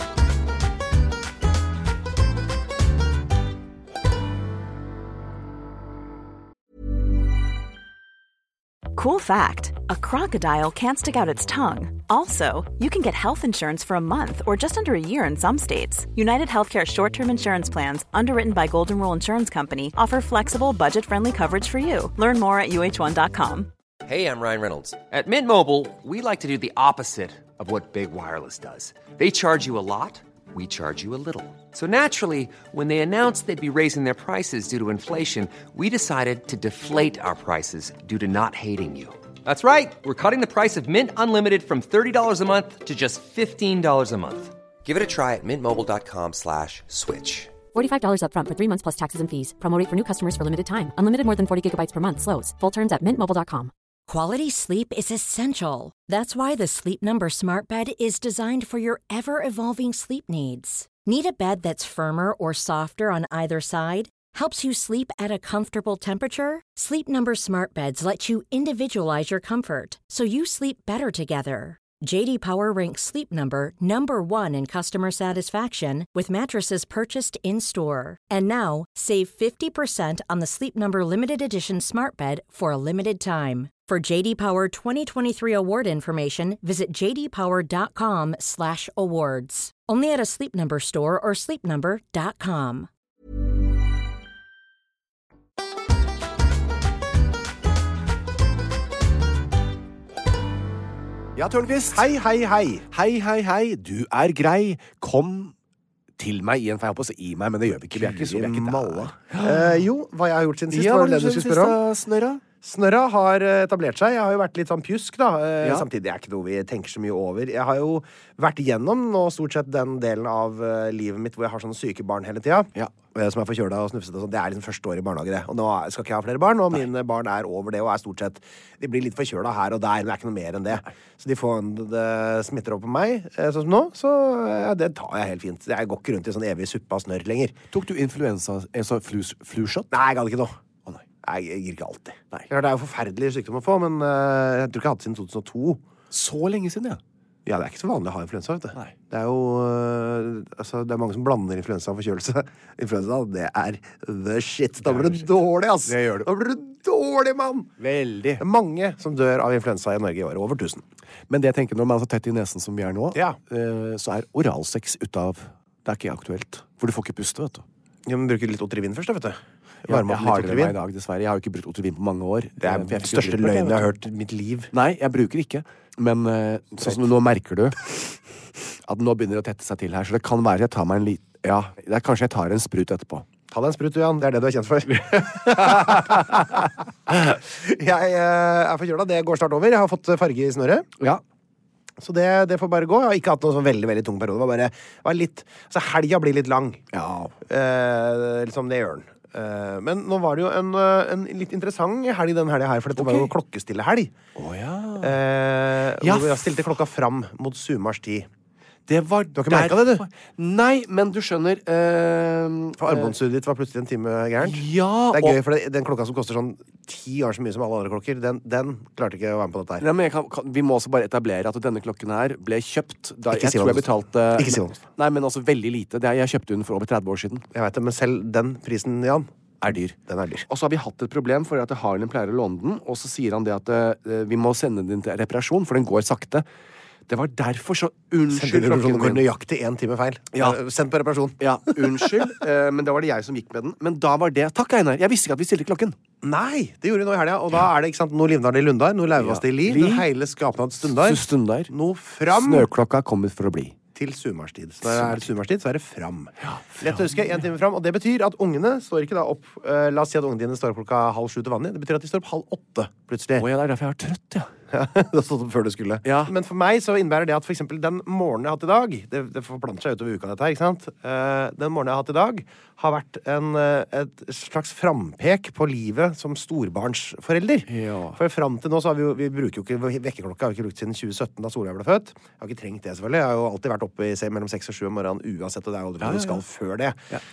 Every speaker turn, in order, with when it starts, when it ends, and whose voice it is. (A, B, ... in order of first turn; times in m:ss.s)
0:08.9-0:23.7 A
0:24.0-0:47.6 B
0:47.7-0:53.7 C
0:54.1-1:32.9 D
1:41.4-1:42.1 E
1:41.9-1:42.9 F
1:42.9-1:45.5 E
1:46.2-1:49.8 E
1:47.9-1:51.8 F
1:50.7-1:52.4 E
1:52.6-2:17.6 F
1:55.6-1:55.9 E
2:17.7-2:19.9 E
2:19.9-2:20.6 F
2:21.2-2:25.8 F
2:26.1-2:27.0 E
2:27.4-2:37.7 F
2:34.9-2:35.2 E
2:35.8-2:36.3 E
2:37.8-2:38.4 E
2:38.4-2:40.8 F
2:41.3-2:47.6 E
2:48.1-2:50.8 F
2:49.9-2:53.9 E
2:52.6-2:54.7 F
2:54.7-2:58.2 E
2:58.9-3:03.2 E
3:03.5-3:10.9 F
3:04.9-3:06.7 E
3:12.0-3:16.8 F
3:16.9-3:17.3 E
3:17.4-3:24.1 F
3:23.0-3:23.3 E
3:24.4-3:25.2 E
3:25.0-3:28.3 F
3:26.0-3:26.6 E
3:28.9-3:33.1 E
3:29.4-3:30.0 F
3:32.8-3:39.9 F
3:34.4-3:35.4 E
3:39.8-3:47.4 E
3:43.3-3:44.8 F
3:47.5-3:49.3 F
3:49.6-3:50.0 E
3:50.1-3:50.4 F
3:50.5-3:56.4 E
3:57.1-3:59.2 E
3:58.3-4:02.3 F
4:01.4-4:06.0 E
4:06.2-4:12.7 F
4:09.2-4:10.1 E
4:10.8-4:11.7 E
4:12.3-4:13.7 E
4:13.9-4:23.5 F
4:14.8-4:15.2 E
4:16.4-4:17.2 E
4:23.4-4:24.5 E
4:24.7-4:47.0 F
4:26.0-4:26.3 E
4:37.7-4:38.2 E
4:46.0-4:46.4 E